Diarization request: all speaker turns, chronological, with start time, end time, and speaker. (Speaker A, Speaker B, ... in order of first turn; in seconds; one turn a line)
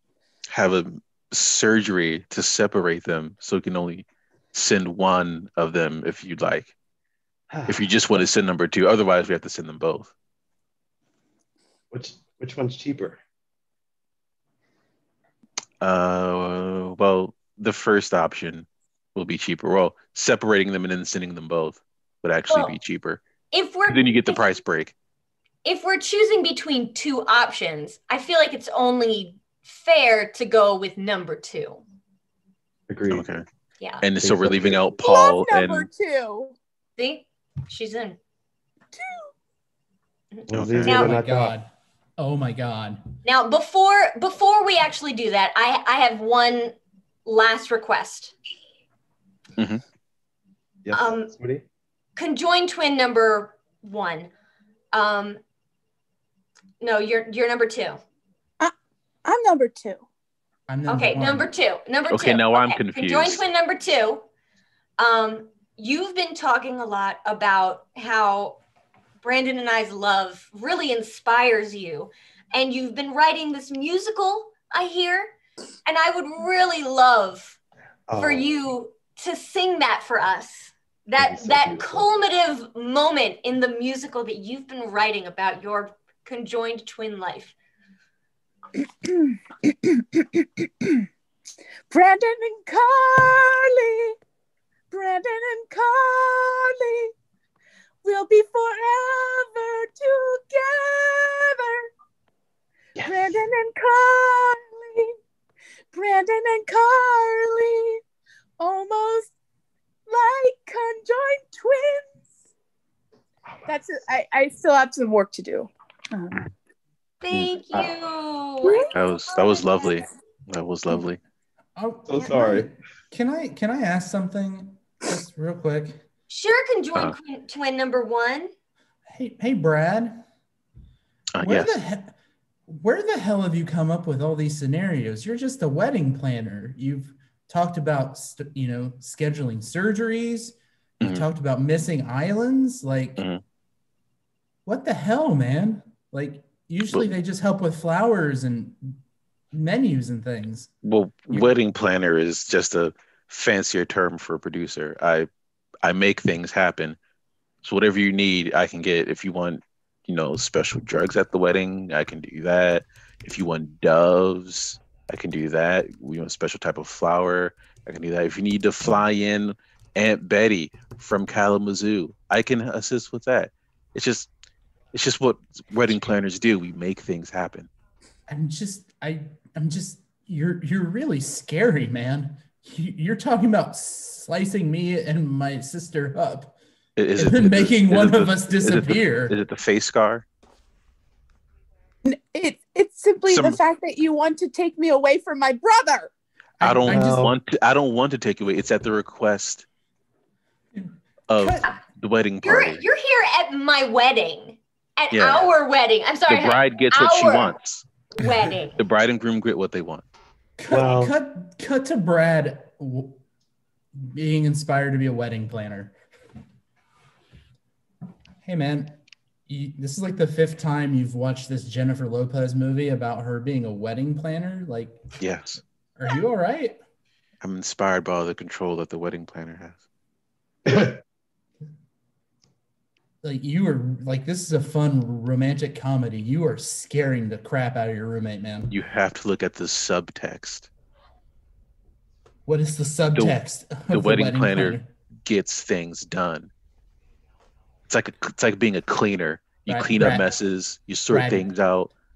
Speaker A: 0.5-6.7
Speaker B: 7.5-7.9
Speaker A: 7.7-10.1
Speaker B: 11.9-13.2
Speaker A: 15.8-23.2
Speaker C: 22.5-22.8
Speaker C: 23.5-24.6
Speaker A: 23.9-24.9
Speaker C: 25.6-31.8
Speaker B: 32.9-33.4
Speaker A: 33.1-33.4
Speaker A: 34.0-35.9
Speaker B: 34.2-34.8
Speaker D: 35.0-36.5
Speaker C: 37.0-38.2
Speaker D: 38.9-39.3
Speaker C: 40.4-41.2
Speaker B: 40.5-41.6
Speaker A: 40.5-41.0
Speaker E: 40.9-43.1
Speaker C: 43.2-48.4
Speaker B: 50.9-51.6
Speaker C: 50.9-51.3
Speaker C: 52.2-54.3
Speaker C: 54.9-55.4
Speaker C: 56.8-58.0
Speaker D: 59.2-60.0
Speaker E: 60.7-61.5
Speaker C: 60.9-64.3
Speaker A: 62.1-63.4
Speaker C: 65.0-68.6
Speaker C: 69.2-75.3
Speaker C: 75.8-77.6
Speaker B: 78.1-78.5
Speaker C: 78.2-87.5
Speaker B: 81.2-82.1
Speaker D: 89.0-91.0
Speaker D: 91.9-94.2
Speaker D: 94.9-97.1
Speaker D: 98.0-101.9
Speaker D: 103.0-105.2
Speaker D: 105.9-108.0
Speaker D: 108.6-109.3
Speaker D: 110.1-112.1
Speaker D: 113.7-116.5
Speaker C: 117.2-119.6
Speaker D: 118.6-118.9
Speaker A: 118.9-121.2
Speaker E: 121.8-126.0
Speaker B: 122.1-122.7
Speaker C: 126.3-128.5
Speaker E: 129.1-130.2
Speaker A: 131.4-131.7
Speaker E: 131.4-132.2
Speaker E: 132.7-143.2
Speaker A: 141.0-141.3
Speaker E: 144.7-149.0
Speaker E: 149.5-150.7
Speaker A: 150.8-155.3
Speaker A: 155.8-157.0
Speaker A: 157.6-174.3
Speaker A: 174.9-177.7
Speaker E: 178.3-186.6
Speaker A: 187.0-190.2
Speaker E: 187.2-189.3
Speaker D: 192.1-196.1
Speaker A: 193.3-193.6
Speaker E: 196.6-197.3
Speaker A: 196.6-199.7
Speaker B: 196.9-197.3
Speaker E: 200.7-201.7
Speaker A: 201.3-202.8
Speaker C: 202.4-207.6
Speaker A: 205.1-205.5
Speaker A: 206.3-207.8
Speaker C: 208.2-208.8
Speaker A: 208.8-210.1
Speaker E: 210.6-213.2
Speaker B: 210.7-211.1
Speaker E: 214.0-215.9
Speaker E: 218.4-225.0
Speaker A: 225.2-225.6
Speaker E: 226.0-226.8
Speaker A: 227.4-229.8
Speaker B: 230.7-231.0
Speaker E: 233.2-238.7
Speaker A: 238.7-240.7
Speaker E: 242.5-244.9
Speaker A: 243.9-246.5
Speaker A: 247.9-251.9
Speaker E: 249.7-250.3
Speaker E: 251.1-251.5